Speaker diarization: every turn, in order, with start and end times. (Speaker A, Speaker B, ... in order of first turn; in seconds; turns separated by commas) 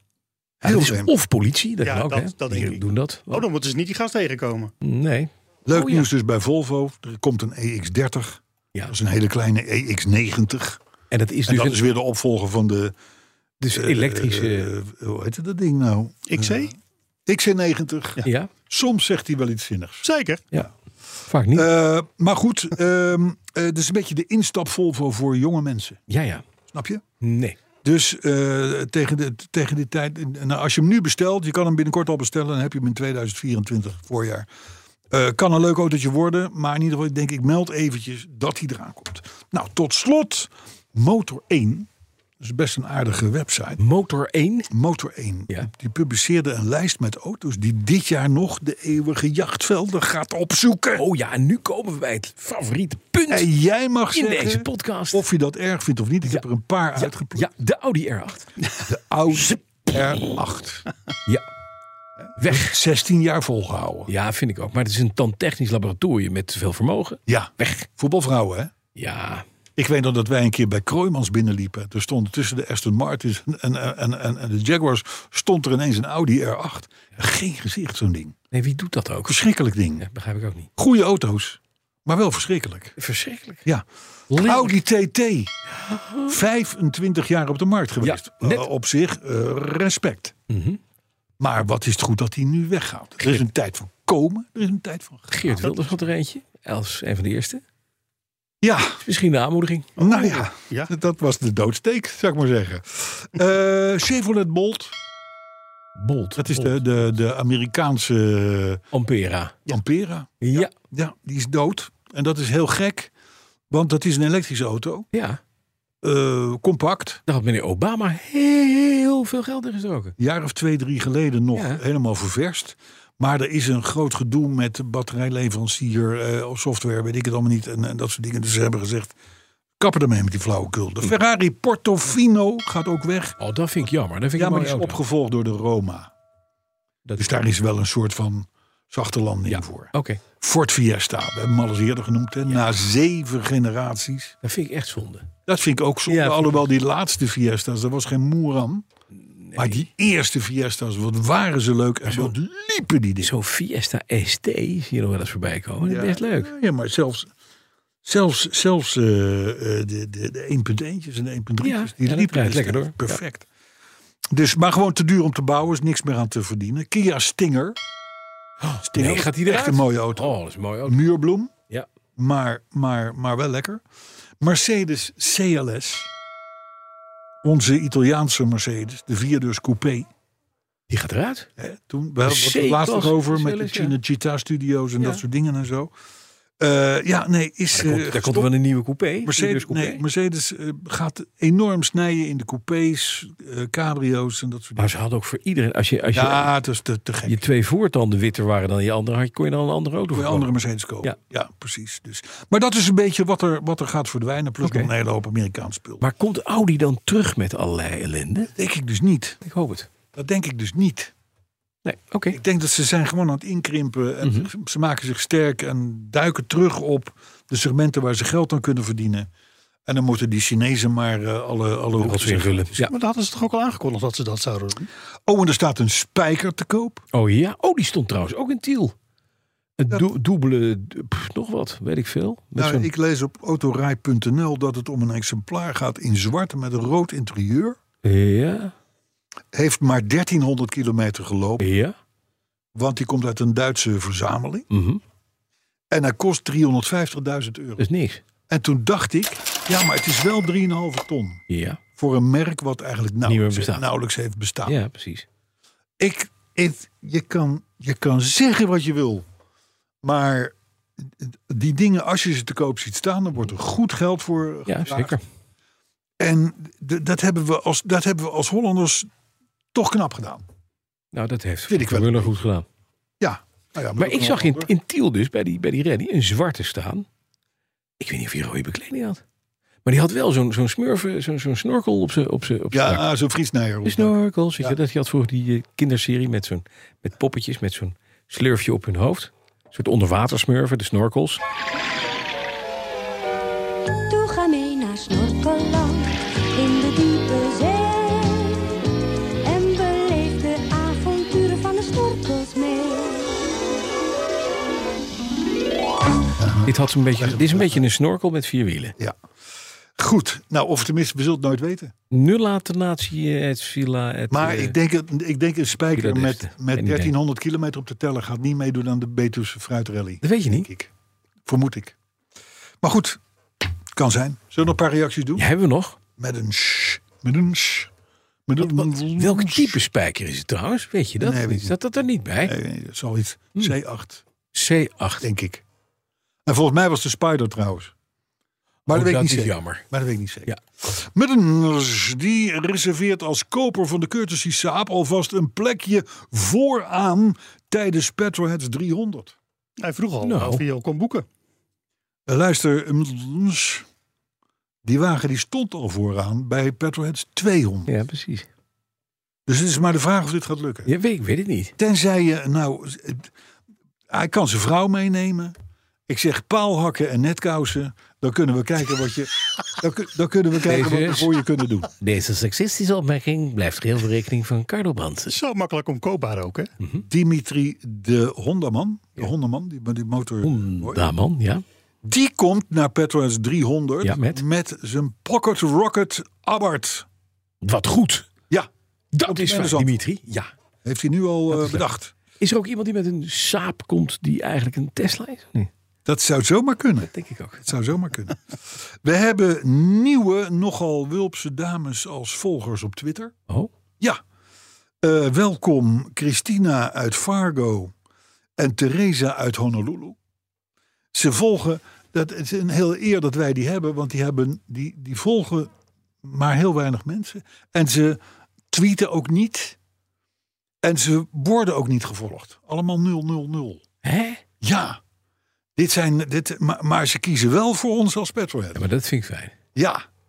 Speaker A: 0.6-1.1, Speaker B: 0.6-3.5, Speaker C: 1.8-4.7, Speaker B: 4.8-6.1, Speaker A: 5.7-10.8, Speaker B: 11.1-11.8, Speaker A: 11.5-12.9, Speaker B: 13.6-14.7, Speaker A: 13.7-16.8, Speaker C: 16.3-16.7, Speaker A: 17.3-20.1, Speaker B: 18.2-18.5, Speaker C: 20.0-20.4, Speaker B: 21.3-21.7, Speaker A: 21.5-26.0, Speaker B: 26.1-26.4, Speaker A: 26.7-27.0, Speaker B: 27.2-27.6, Speaker A: 27.8-34.5, Speaker A: 35.1-41.9, Speaker A: 42.4-43.8, Speaker B: 43.8-44.7, Speaker A: 44.7-51.1, Speaker B: 51.0-53.5, Speaker A: 53.3-57.5, Speaker B: 54.1-55.3, Speaker B: 57.0-58.5, Speaker A: 58.8-60.9, Speaker A: 62.2-64.1, Speaker B: 62.4-62.7, Speaker B: 64.1-67.9, Speaker A: 67.3-68.7, Speaker B: 69.0-69.5, Speaker A: 69.8-78.3, Speaker B: 78.5-79.4, Speaker A: 79.2-80.1, Speaker B: 80.0-80.7, Speaker A: 80.8-83.0, Speaker B: 83.0-83.7, Speaker A: 83.7-85.5, Speaker B: 84.3-84.7, Speaker B: 85.7-86.4, Speaker A: 86.2-90.3, Speaker B: 88.0-88.7, Speaker B: 90.5-90.8, Speaker A: 91.4-95.7, Speaker B: 95.3-97.6, Speaker A: 98.6-99.0, Speaker B: 99.0-99.9, Speaker C: 100.0-100.9, Speaker A: 100.0-105.0, Speaker B: 106.0-106.8, Speaker A: 106.4-108.8, Speaker B: 108.9-109.7, Speaker A: 109.7-113.1, Speaker B: 110.4-110.7, Speaker A: 113.7-115.1, Speaker B: 115.1-115.4, Speaker A: 116.0-117.2, Speaker B: 117.3-120.1, Speaker A: 120.2-129.2, Speaker B: 121.5-121.8, Speaker A: 129.8-136.1, Speaker B: 133.4-135.0, Speaker B: 137.1-137.4, Speaker A: 137.2-144.4, Speaker B: 139.5-140.2, Speaker B: 144.4-145.3, Speaker A: 145.5-148.8, Speaker B: 146.1-146.6, Speaker B: 149.4-149.9, Speaker A: 149.6-153.3, Speaker B: 152.1-152.3, Speaker B: 153.2-156.5, Speaker A: 155.8-157.3, Speaker A: 158.0-163.5, Speaker B: 161.6-163.2, Speaker A: 164.3-167.8, Speaker B: 168.6-171.0, Speaker A: 168.8-171.5, Speaker A: 172.2-173.8, Speaker A: 174.4-176.1, Speaker A: 177.4-180.1, Speaker B: 180.9-181.5, Speaker A: 181.6-185.9, Speaker B: 182.2-183.9, Speaker A: 186.6-188.5, Speaker B: 187.7-190.0, Speaker A: 189.2-195.0, Speaker B: 194.8-196.5, Speaker A: 196.1-197.5, Speaker B: 197.3-200.5, Speaker A: 200.1-206.1, Speaker B: 204.6-204.9, Speaker B: 206.0-208.5, Speaker A: 208.5-209.4, Speaker B: 209.4-209.9, Speaker A: 210.1-211.1, Speaker B: 211.8-212.4, Speaker A: 212.3-219.3, Speaker B: 214.2-214.5, Speaker A: 219.9-222.9, Speaker B: 222.0-222.8, Speaker C: 222.8-224.9, Speaker A: 225.3-227.0, Speaker B: 227.1-228.9, Speaker B: 229.8-232.9, Speaker A: 232.6-237.8, Speaker B: 238.0-238.7, Speaker A: 239.5-241.7, Speaker B: 241.6-241.9, Speaker A: 242.8-244.7, Speaker B: 244.7-245.0, Speaker A: 245.9-247.9, Speaker B: 247.8-248.2, Speaker A: 248.5-251.4, Speaker B: 251.5-251.8, Speaker A: 252.0-254.8, Speaker B: 253.2-253.9, Speaker B: 254.7-255.3, Speaker A: 256.0-259.3, Speaker A: 260.0-265.2, Speaker B: 264.7-265.2, Speaker A: 266.2-269.1, Speaker A: 269.7-270.4, Speaker B: 271.1-272.7, Speaker A: 271.7-272.3, Speaker A: 273.2-274.7, Speaker B: 274.0-277.1, Speaker B: 278.0-279.2, Speaker B: 279.9-283.1, Speaker A: 282.7-284.8, Speaker B: 283.8-291.4, Speaker D: 294.1-298.8, Speaker D: 299.4-303.5, Speaker A: 306.4-307.9, Speaker B: 306.6-308.9, Speaker A: 310.0-311.9, Speaker B: 312.1-314.8, Speaker A: 314.3-320.9, Speaker B: 315.9-317.1, Speaker B: 320.2-320.7, Speaker A: 321.5-322.0, Speaker A: 322.8-323.2, Speaker A: 323.9-325.5, Speaker B: 325.4-326.0, Speaker A: 326.2-327.9, Speaker A: 328.5-329.8, Speaker B: 328.6-332.6, Speaker A: 331.2-331.8, Speaker A: 332.4-334.2, Speaker B: 334.5-335.3, Speaker A: 335.2-335.6, Speaker A: 336.5-337.9, Speaker A: 338.9-349.4, Speaker B: 338.9-339.9, Speaker C: 349.8-351.3, Speaker B: 350.2-350.6, Speaker A: 352.3-353.9, Speaker A: 354.8-357.9, Speaker B: 357.9-358.5, Speaker A: 359.5-360.9, Speaker B: 360.9-361.7, Speaker A: 361.8-363.3, Speaker A: 364.1-365.6, Speaker A: 366.1-371.9, Speaker B: 370.6-371.3, Speaker B: 372.0-375.4, Speaker C: 375.3-376.7, Speaker A: 377.1-381.0, Speaker B: 380.4-381.6, Speaker A: 382.0-387.1, Speaker B: 384.0-384.4, Speaker B: 387.6-388.3, Speaker B: 389.1-390.5, Speaker A: 389.2-389.9, Speaker A: 390.8-392.1, Speaker B: 391.5-391.9, Speaker B: 392.4-395.7, Speaker A: 396.1-398.4, Speaker B: 397.1-397.7, Speaker A: 399.0-403.3, Speaker A: 405.0-407.9, Speaker A: 408.6-410.2, Speaker A: 411.1-415.7, Speaker A: 416.2-418.2, Speaker A: 418.7-419.8, Speaker A: 420.8-423.8, Speaker B: 424.0-424.4, Speaker A: 424.6-425.0, Speaker A: 425.8-428.9, Speaker B: 428.8-429.5, Speaker A: 429.8-430.0